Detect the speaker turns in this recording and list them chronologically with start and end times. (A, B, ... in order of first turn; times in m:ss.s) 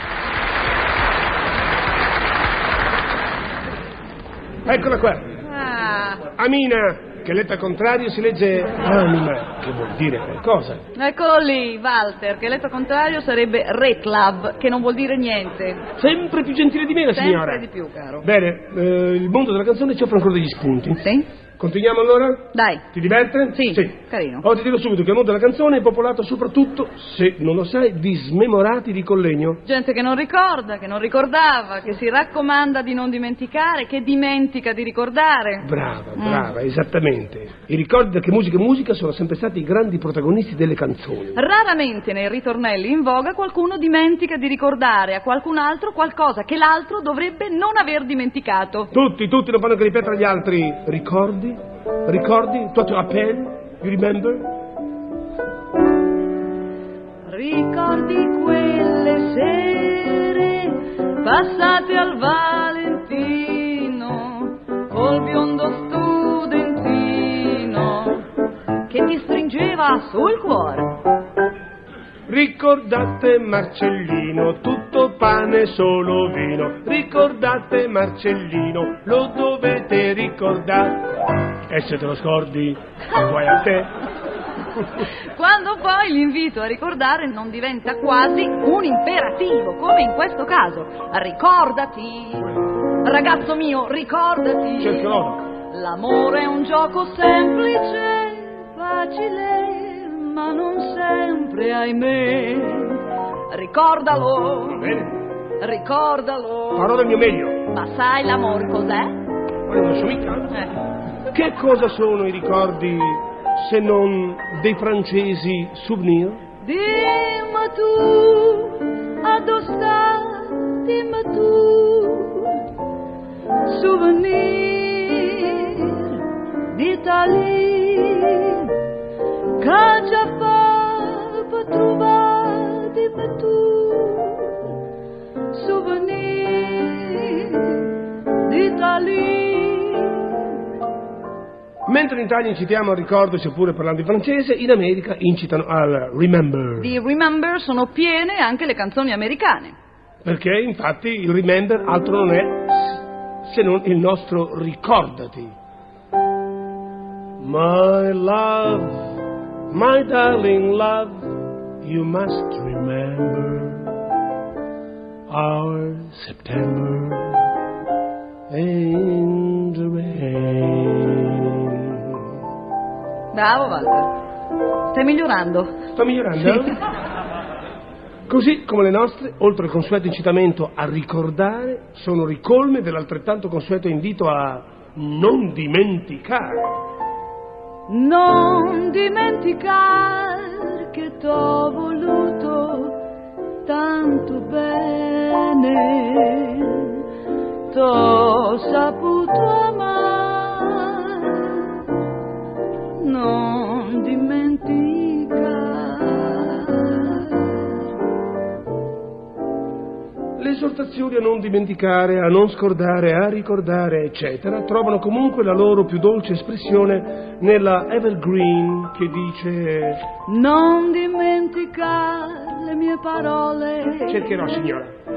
0:04.7-0:05.3 A
0:05.4-0:06.2 B
0:06.4-0:10.8 A
0:11.0-0:15.8 B
0:16.0-0:17.7 A
0:17.1-0:18.3 B
0:18.2-0:21.0 A
0:21.0-0:21.3 B
0:21.6-0:29.6 A
0:22.5-0:22.9 B
0:23.5-0:24.5 B
0:29.6-0:36.5 B
0:35.6-0:41.4 A
0:41.4-0:48.9 B
0:48.9-0:54.5 A
0:57.3-1:08.3 B
1:08.9-1:11.0 B
1:12.3-1:21.1 A
1:21.7-1:24.0 A
1:25.3-1:45.1 B
1:34.8-1:35.4 A
1:44.7-1:45.1 A
1:45.6-1:47.0 B
1:46.8-1:47.6 A
1:47.6-1:49.2 B
1:49.7-1:50.6 A
1:51.3-1:56.4 A
1:56.6-2:02.7 B
2:03.7-2:08.8 B
2:09.6-2:14.8 B
2:15.5-2:20.5 B
2:21.9-2:26.9 A
2:26.8-2:29.8 B
2:30.2-2:35.5 A
2:37.4-2:39.0 A
2:39.7-2:41.3 A
2:41.8-2:43.9 A
2:45.3-2:47.5 A
2:48.5-2:52.2 A
2:53.3-2:54.1 B
2:54.9-2:55.8 B
2:56.0-2:56.8 A
2:58.3-3:06.8 A
3:07.9-3:13.0 B
3:13.6-3:17.1 B
3:17.7-3:21.9 B
3:23.0-3:27.9 B
3:30.4-3:40.0 A
3:40.3-3:44.5 B
3:44.1-3:44.9 A